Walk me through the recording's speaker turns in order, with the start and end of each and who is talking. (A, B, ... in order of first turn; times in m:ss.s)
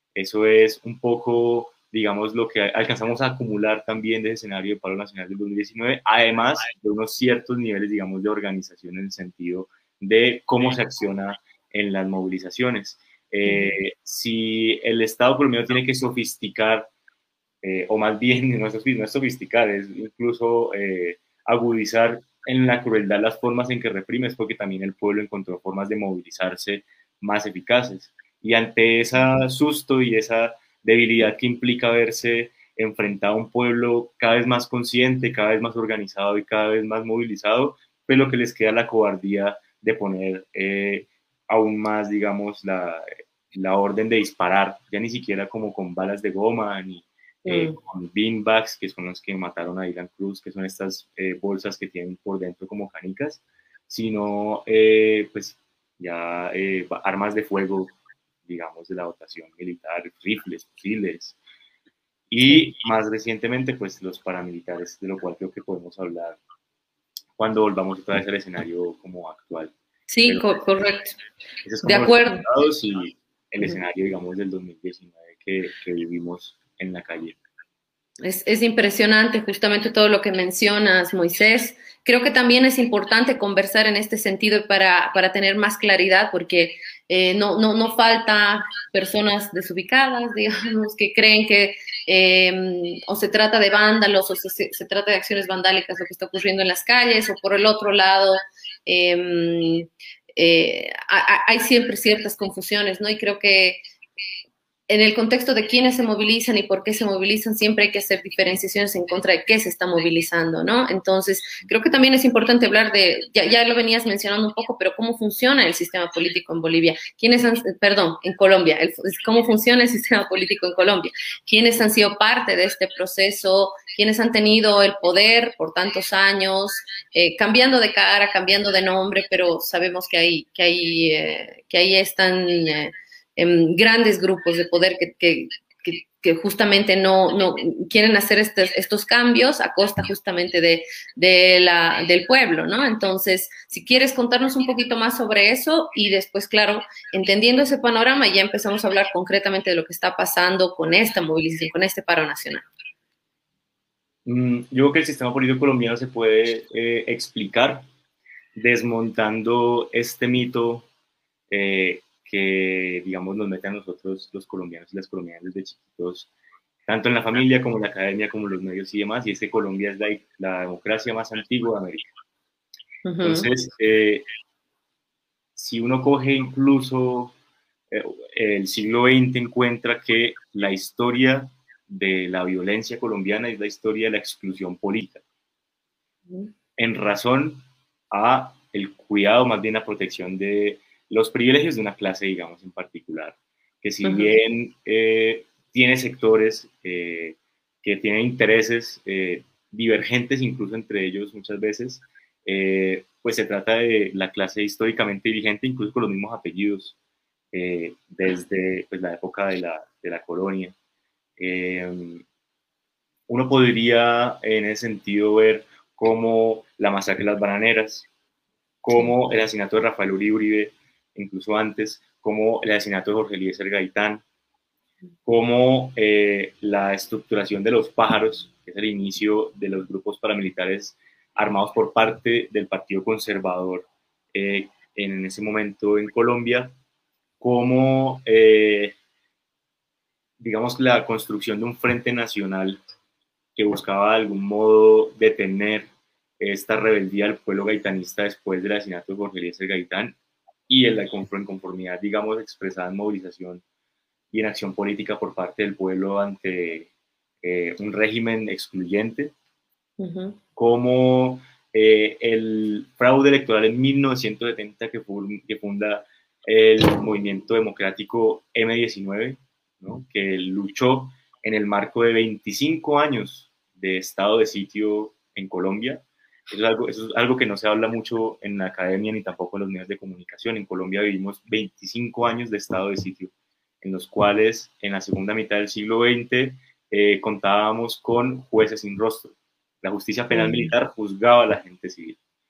0:00.2-0:16.9 A
0:13.4-0:13.8 B
0:17.6-0:57.9 A
0:47.5-0:47.8 B
0:58.5-1:01.4 A
1:02.3-1:06.4 A
1:07.4-1:10.6 A
1:10.1-1:11.2 B
1:11.6-1:17.4 A
1:11.8-1:12.4 B
1:18.2-1:43.8 B
1:44.9-2:32.7 B
2:34.3-2:37.8 A
2:38.6-2:40.9 A
2:41.5-2:46.3 A
2:46.9-2:52.1 A
2:53.0-2:53.5 B
2:53.2-2:54.3 A
2:55.6-2:57.3 A
2:57.9-3:05.2 A
3:06.8-3:27.0 A
3:14.0-3:14.4 B
3:27.5-3:30.8 A
3:31.4-3:32.2 A
3:33.3-3:38.1 A
3:38.8-3:44.2 A
3:45.3-3:56.7 A
3:57.4-3:59.0 A
4:00.4-4:02.8 A
4:03.6-4:05.9 A
4:06.4-4:10.2 A
4:10.7-4:13.6 A
4:14.3-4:16.9 A
4:17.4-4:19.3 A
4:20.0-4:20.4 B
4:20.6-4:52.2 A
4:50.3-4:50.7 B